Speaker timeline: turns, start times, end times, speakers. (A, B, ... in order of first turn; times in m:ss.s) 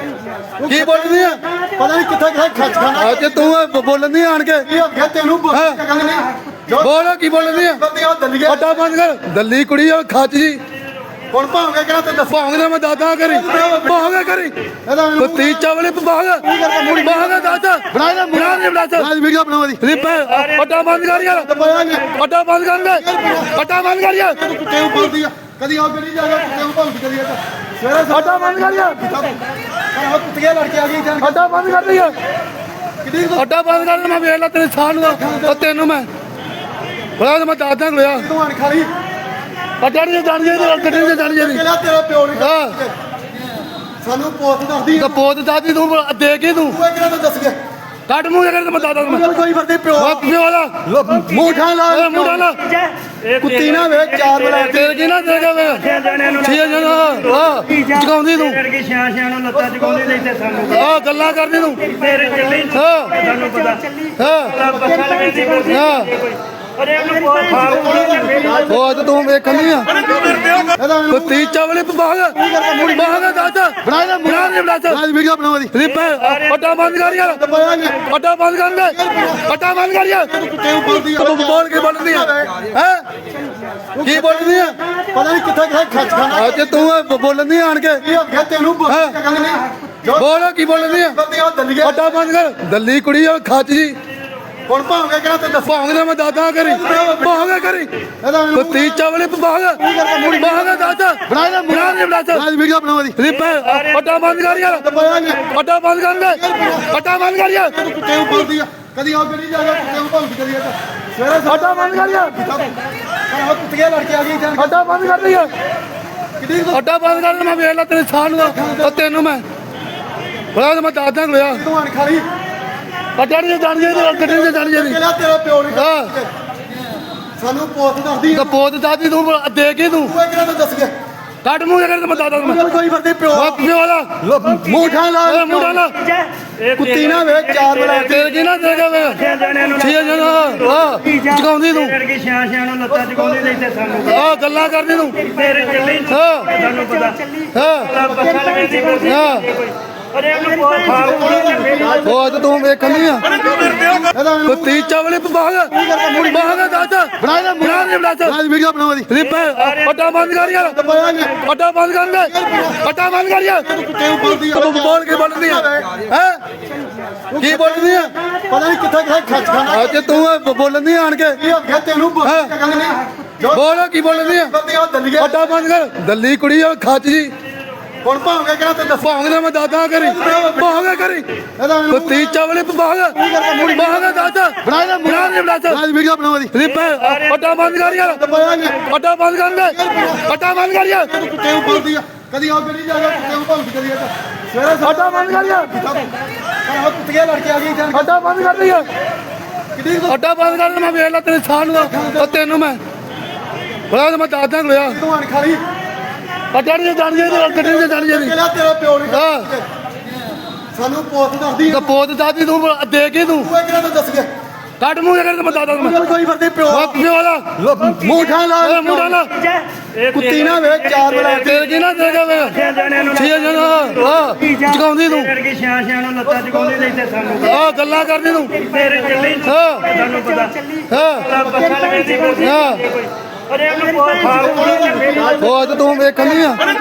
0:00.6-0:03.6 A
0:00.7-0:01.4 B
0:03.0-0:04.7 B
0:04.6-0:08.6 A
0:05.5-0:05.8 B
0:06.8-0:07.8 B
0:08.5-0:10.6 B
0:11.3-0:12.5 A
0:12.3-0:14.6 B
0:13.3-0:14.0 A
0:14.8-0:15.6 A
0:15.2-0:19.1 B
0:16.4-0:17.6 A
0:19.0-0:19.8 A
0:19.8-0:24.4 B
0:21.3-0:22.1 A
0:22.9-0:23.6 A
0:24.3-0:31.6 A
0:28.1-0:29.0 B
0:31.2-0:32.2 B
0:33.0-0:33.4 A
0:33.4-0:36.1 B
0:35.1-0:35.6 A
0:37.2-0:38.2 B
0:38.1-0:38.9 A
0:39.8-0:41.6 B
0:40.5-0:42.9 A
0:42.4-0:42.8 B
0:44.0-0:45.2 A
0:45.0-0:46.8 B
0:46.7-0:47.6 A
0:48.1-0:49.3 B
0:49.0-0:50.2 A
0:50.0-0:50.9 B
0:50.8-0:52.5 A
0:51.9-0:52.7 B
0:53.4-0:54.9 A
0:54.6-0:58.7 B
0:56.0-0:56.3 C
0:58.7-1:00.6 C
1:00.6-1:02.0 B
1:02.0-1:02.7 C
1:02.6-1:03.3 B
1:03.2-1:03.9 C
1:04.2-1:04.7 B
1:04.6-1:05.6 C
1:05.4-1:06.2 B
1:06.8-1:08.5 C
1:07.5-1:08.8 A
1:08.6-1:10.6 B
1:10.6-1:11.4 A
1:11.1-1:15.0 B
1:12.4-1:13.5 A
1:14.9-1:15.7 A
1:15.7-1:17.4 B
1:17.3-1:18.0 A
1:17.9-1:20.3 B
1:18.9-1:19.5 A
1:20.3-1:22.6 A
1:21.0-1:23.0 B
1:23.9-1:26.9 A
1:24.0-1:24.7 B
1:26.3-1:28.0 B
1:28.0-1:32.0 A
1:28.9-1:29.2 B
1:30.1-1:31.2 B
1:31.8-1:34.0 B
1:34.6-1:35.8 A
1:35.6-1:37.9 B
1:36.6-1:37.3 A
1:38.2-1:39.0 A
1:38.5-1:39.8 B
1:39.8-1:43.2 A
1:40.3-1:42.4 B
1:43.2-1:44.8 B
1:44.6-1:45.4 A
1:45.4-1:47.7 B
1:46.3-1:46.9 A
1:47.6-1:54.8 A
1:51.5-1:52.4 B
1:54.6-1:55.5 B
1:56.4-1:56.8 A
1:56.7-1:59.4 B
1:58.4-1:59.0 A
2:00.5-2:01.6 B
2:01.5-2:02.3 A
2:03.2-2:05.0 B
2:03.9-2:06.3 A
2:05.7-2:06.1 B
2:07.4-2:08.5 A
2:08.3-2:10.2 B
2:10.0-2:10.9 A
2:11.4-2:12.6 B
2:12.1-2:13.6 A
2:13.3-2:14.2 B
2:14.2-2:15.8 A
2:15.2-2:16.1 B
2:16.8-2:18.3 A
2:18.0-2:22.0 B
2:22.0-2:24.0 C
2:22.9-2:23.5 A
2:24.0-2:25.4 B
2:25.4-2:26.1 C
2:26.0-2:26.9 B
2:26.6-2:27.2 C
2:27.5-2:28.1 B
2:28.0-2:29.4 C
2:29.0-2:29.6 B
2:30.1-2:31.4 C
2:30.8-2:32.2 A
2:32.0-2:33.6 B
2:34.1-2:34.8 A
2:34.5-2:38.4 B
2:35.7-2:36.8 A
2:38.2-2:39.1 A
2:39.1-2:40.8 B
2:40.6-2:41.4 A
2:41.3-2:43.7 B
2:42.3-2:42.8 A
2:43.6-2:45.9 A
2:44.4-2:46.4 B
2:47.3-2:50.2 A
2:47.4-2:48.1 B
2:49.7-2:51.4 B
2:51.4-2:55.4 A
2:52.2-2:52.5 B
2:53.5-2:54.5 B
2:55.2-2:57.3 B
2:58.0-2:59.1 A
2:59.0-3:01.3 B
3:00.0-3:00.7 A
3:01.6-3:02.4 A
3:01.9-3:05.8 B
3:03.1-3:04.3 A
3:05.7-3:06.5 A
3:06.5-3:08.2 B
3:08.1-3:08.8 A
3:08.8-3:11.1 B
3:09.6-3:10.3 A
3:11.1-3:18.4 A
3:14.8-3:15.7 B
3:17.9-3:18.9 B
3:19.7-3:20.2 A
3:20.1-3:22.8 B
3:21.8-3:22.4 A
3:23.9-3:25.0 B
3:24.8-3:25.6 A
3:26.5-3:28.3 B
3:27.2-3:29.6 A
3:29.1-3:29.5 B
3:30.7-3:31.9 A
3:31.7-3:33.5 B
3:33.4-3:34.3 A
3:34.8-3:36.0 B
3:35.6-3:37.0 A
3:36.7-3:37.6 B
3:37.6-3:39.2 A
3:38.6-3:39.4 B
3:40.1-3:41.6 A
3:41.2-3:45.5 B
3:42.7-3:43.0 C
3:45.4-3:47.3 C
3:46.3-3:47.0 A
3:47.4-3:50.0 B
3:48.7-3:49.4 C
3:49.9-3:50.7 C
3:50.9-3:51.4 B
3:51.4-3:55.3 C
3:52.3-3:53.0 B
3:54.2-3:56.0 A
3:55.4-3:56.7 B